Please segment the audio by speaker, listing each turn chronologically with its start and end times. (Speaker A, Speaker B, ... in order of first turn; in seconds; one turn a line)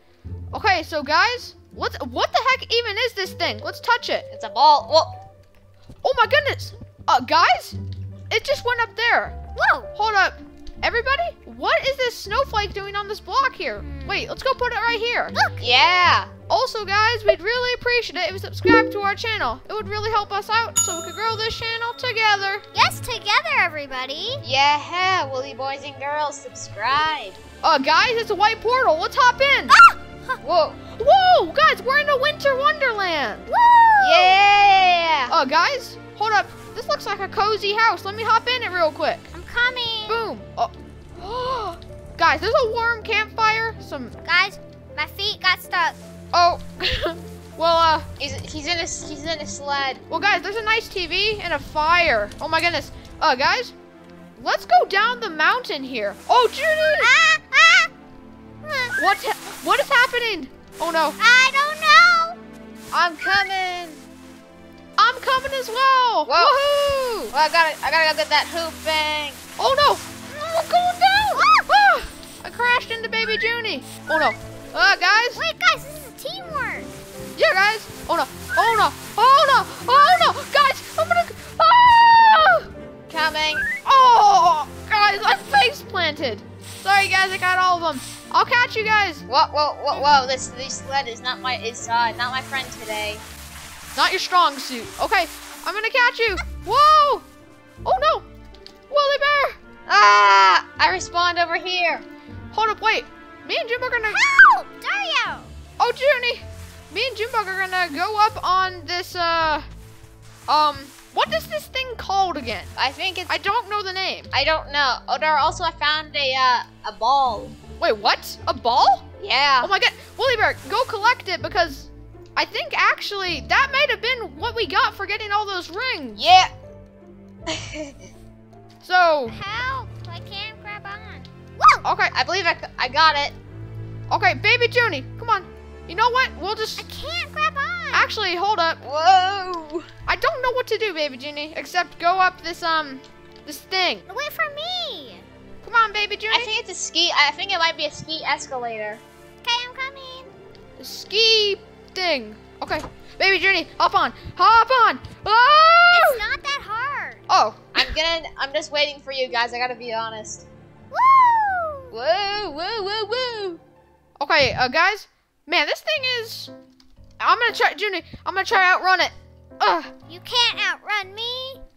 Speaker A: 0.5-4.3
Speaker B: 4.3-5.2
Speaker A: 6.0-7.8
Speaker A: 8.3-9.4
Speaker C: 9.5-9.9
Speaker A: 9.9-15.3
Speaker C: 13.8-14.2
Speaker C: 15.3-15.8
Speaker B: 15.6-16.3
Speaker A: 16.5-22.6
Speaker C: 22.7-24.4
Speaker B: 24.4-27.4
Speaker A: 27.6-29.7
Speaker C: 29.7-30.4
Speaker B: 30.4-30.8
Speaker A: 30.9-33.5
Speaker C: 33.5-34.4
Speaker B: 34.0-35.3
Speaker A: 35.3-39.2
Speaker C: 39.3-40.1
Speaker A: 40.1-44.1
Speaker C: 44.2-46.0
Speaker A: 46.3-48.1
Speaker B: 48.2-50.0
Speaker A: 50.1-53.7
Speaker A: 54.4-57.1
Speaker C: 56.9-57.9
Speaker C: 58.6-59.0
Speaker A: 59.0-61.2
Speaker C: 61.2-62.4
Speaker B: 62.9-64.0
Speaker A: 65.0-67.3
Speaker B: 66.2-66.6
Speaker B: 67.3-69.4
Speaker A: 69.6-75.4
Speaker C: 71.3-71.7
Speaker C: 75.3-76.9
Speaker A: 77.3-82.7
Speaker B: 83.1-83.7
Speaker A: 83.8-89.2
Speaker B: 89.3-93.2
Speaker A: 93.9-97.2
Speaker A: 97.8-98.3
Speaker A: 98.9-99.6
Speaker B: 99.9-102.0
Speaker A: 102.5-104.2
Speaker C: 104.1-105.5
Speaker A: 105.8-109.7
Speaker A: 110.5-112.7
Speaker B: 112.8-113.3
Speaker A: 113.3-114.3
Speaker B: 114.3-117.6
Speaker A: 117.8-119.1
Speaker B: 119.2-119.7
Speaker A: 119.6-126.2
Speaker B: 126.2-126.5
Speaker B: 127.5-127.9
Speaker A: 128.8-129.3
Speaker C: 129.3-131.8
Speaker A: 131.8-132.1
Speaker B: 132.1-133.3
Speaker A: 134.1-136.9
Speaker C: 136.8-138.1
Speaker A: 137.9-138.8
Speaker B: 138.8-139.9
Speaker A: 140.1-144.0
Speaker C: 144.1-145.2
Speaker A: 145.6-146.5
Speaker B: 146.3-149.0
Speaker C: 149.4-150.3
Speaker A: 150.8-156.2
Speaker C: 155.9-157.2
Speaker A: 157.3-157.9
Speaker B: 157.7-160.4
Speaker C: 160.9-161.9
Speaker B: 161.9-163.6
Speaker A: 164.2-166.5
Speaker A: 167.2-169.9
Speaker C: 170.1-171.6